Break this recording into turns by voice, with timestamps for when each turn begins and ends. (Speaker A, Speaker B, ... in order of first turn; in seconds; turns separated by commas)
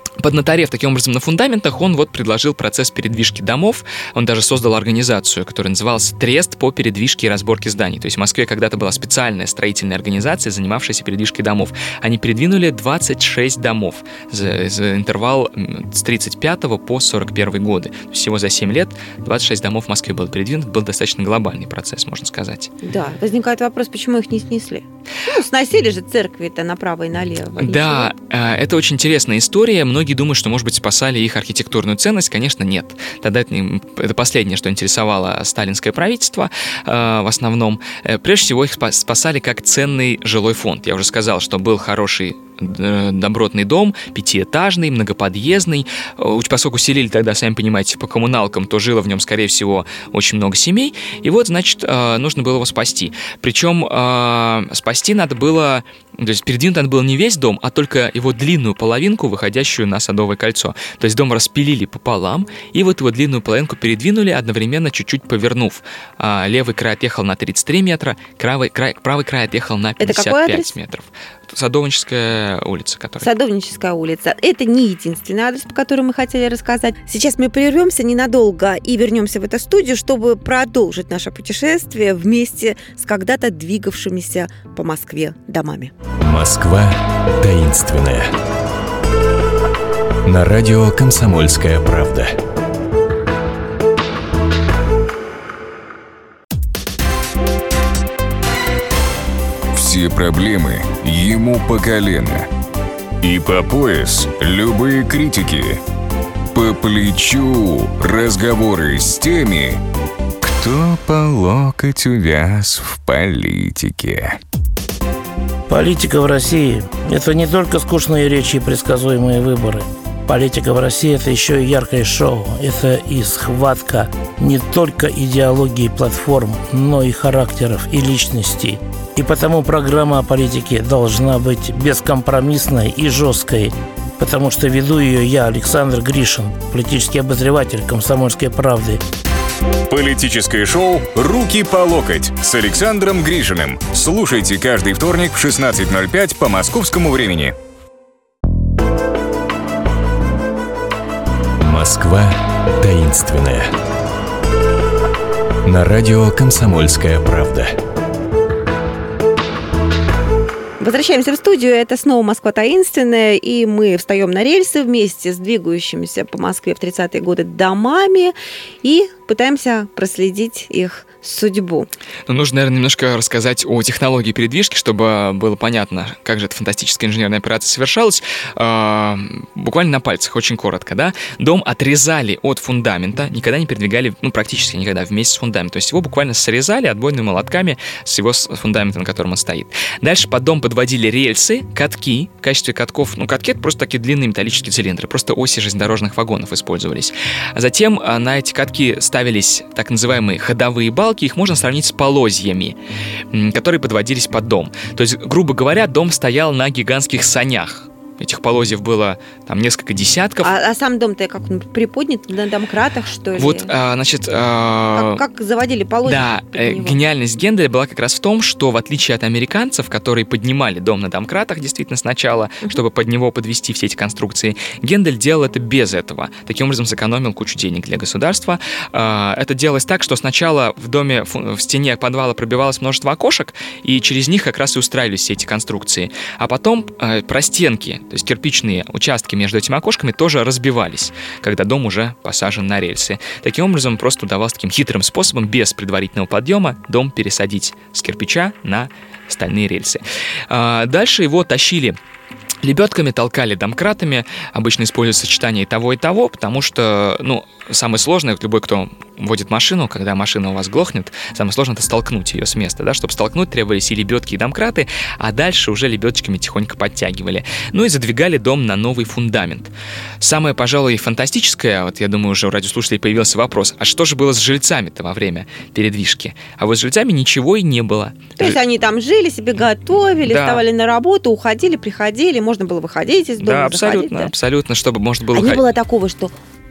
Speaker A: 0.2-22.7, Speaker B: 22.8-28.1, Speaker A: 27.6-73.3, Speaker B: 70.0-70.7, Speaker B: 73.2-85.9, Speaker C: 86.2-88.3, Speaker C: 90.2-92.3, Speaker D: 99.7-102.5, Speaker D: 103.2-105.8, Speaker D: 106.5-109.8, Speaker D: 110.4-114.4, Speaker E: 115.7-139.0, Speaker D: 139.9-147.5, Speaker C: 151.6-153.7, Speaker C: 155.6-157.7, Speaker B: 160.8-171.9, Speaker A: 172.3-202.8, Speaker A: 203.3-210.5, Speaker B: 210.4-213.7, Speaker A: 213.4-215.2, Speaker B: 214.9-217.0, Speaker A: 216.0-252.0, Speaker A: 252.6-278.6, Speaker B: 278.4-284.3, Speaker A: 280.2-280.6, Speaker A: 283.4-285.6, Speaker B: 285.3-286.3